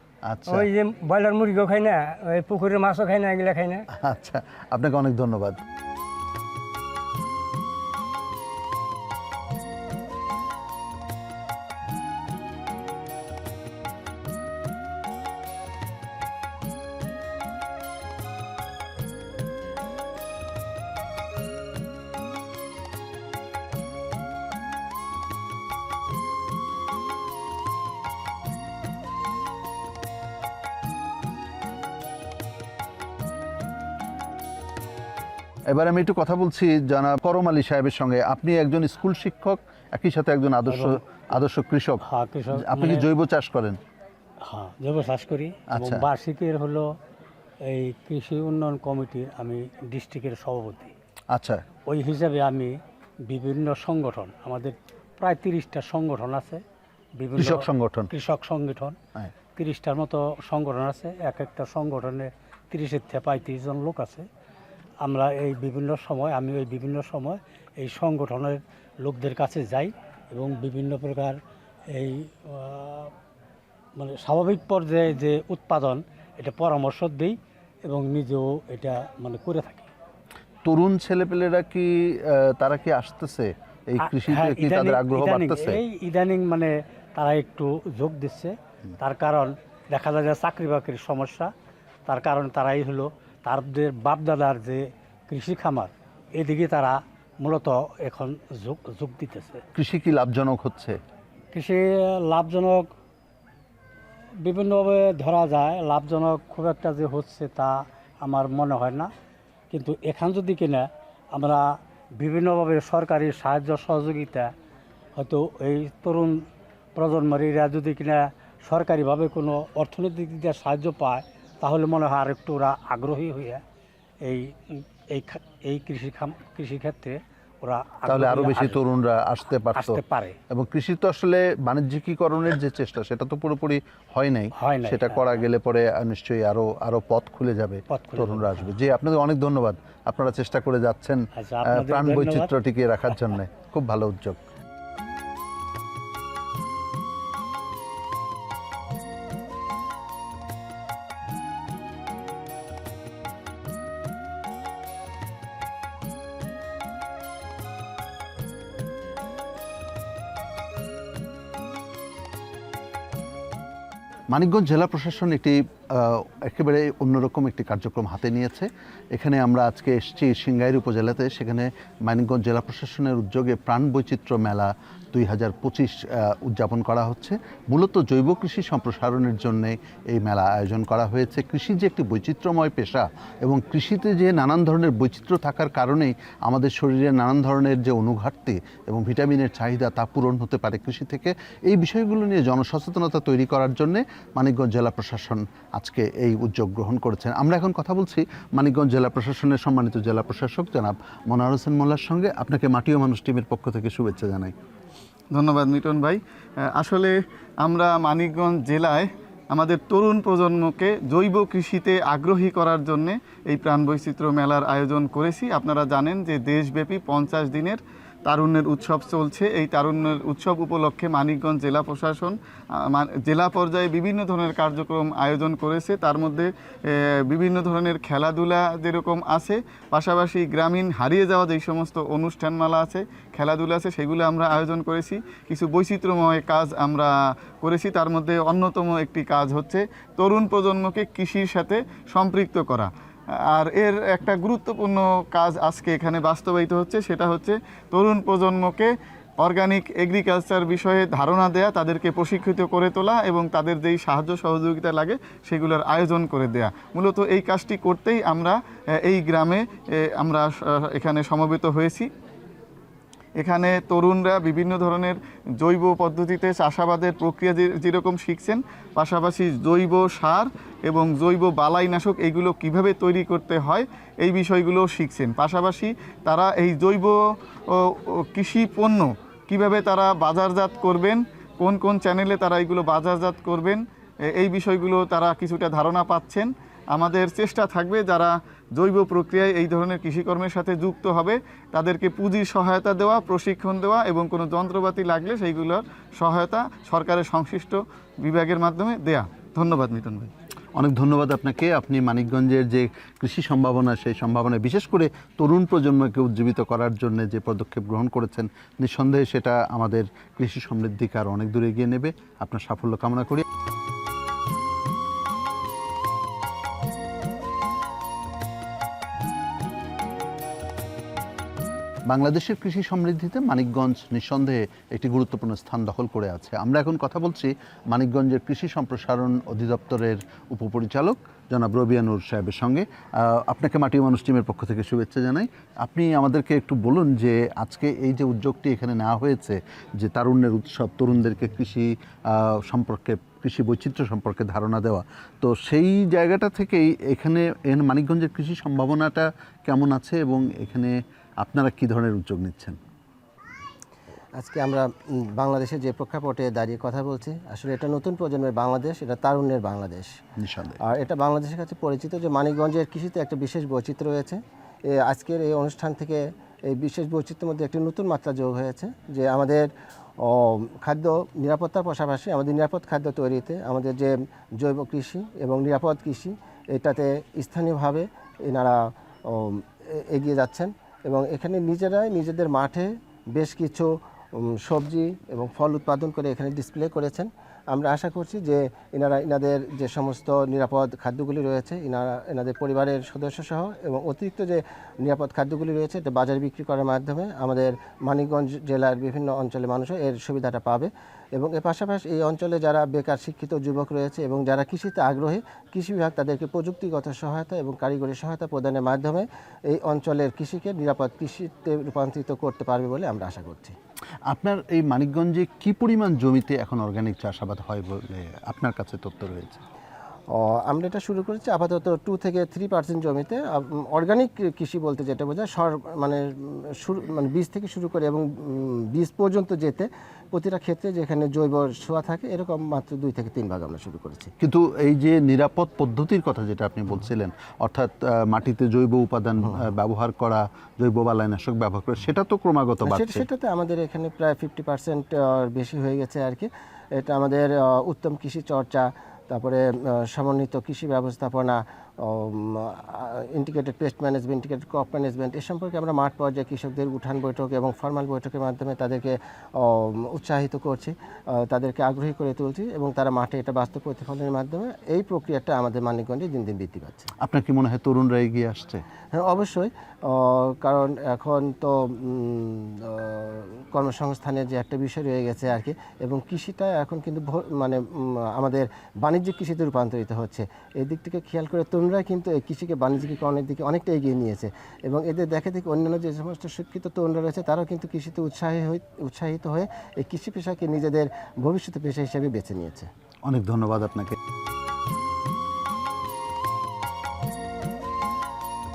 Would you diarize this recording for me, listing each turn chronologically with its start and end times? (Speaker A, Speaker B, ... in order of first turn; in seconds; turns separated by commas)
Speaker A: 0.2-0.7, Speaker B: 0.5-3.9, Speaker A: 3.9-5.6, Speaker A: 35.7-43.8, Speaker C: 40.7-41.0, Speaker C: 42.0-43.1, Speaker C: 44.5-46.9, Speaker A: 45.8-46.0, Speaker C: 47.7-50.9, Speaker A: 51.3-51.6, Speaker C: 51.9-52.8, Speaker C: 53.3-56.6, Speaker C: 57.2-59.0, Speaker A: 57.4-58.1, Speaker C: 59.6-64.3, Speaker C: 65.0-71.4, Speaker C: 71.9-73.1, Speaker C: 74.0-79.9, Speaker A: 80.7-85.8, Speaker C: 84.0-91.5, Speaker C: 92.1-99.6, Speaker A: 99.8-101.0, Speaker C: 101.5-102.9, Speaker C: 104.4-109.1, Speaker C: 109.7-114.5, Speaker C: 115.2-116.4, Speaker C: 117.0-123.6, Speaker C: 124.2-128.8, Speaker A: 128.1-130.0, Speaker C: 129.8-130.4, Speaker A: 130.5-141.2, Speaker C: 134.6-135.4, Speaker C: 137.9-138.7, Speaker C: 141.4-142.5, Speaker A: 141.7-144.4, Speaker A: 164.3-204.6, Speaker D: 205.3-262.1, Speaker D: 263.4-277.2, Speaker D: 277.7-300.3, Speaker A: 300.8-313.4, Speaker A: 322.1-352.8, Speaker E: 354.4-360.1, Speaker A: 360.4-360.8, Speaker E: 360.8-369.7, Speaker E: 370.2-413.7, Speaker A: 414.3-419.6, Speaker E: 420.3-434.3, Speaker A: 434.4-443.3, Speaker E: 442.8-467.1, Speaker A: 467.2-468.8, Speaker E: 469.1-477.8, Speaker E: 478.3-492.9, Speaker A: 493.2-494.2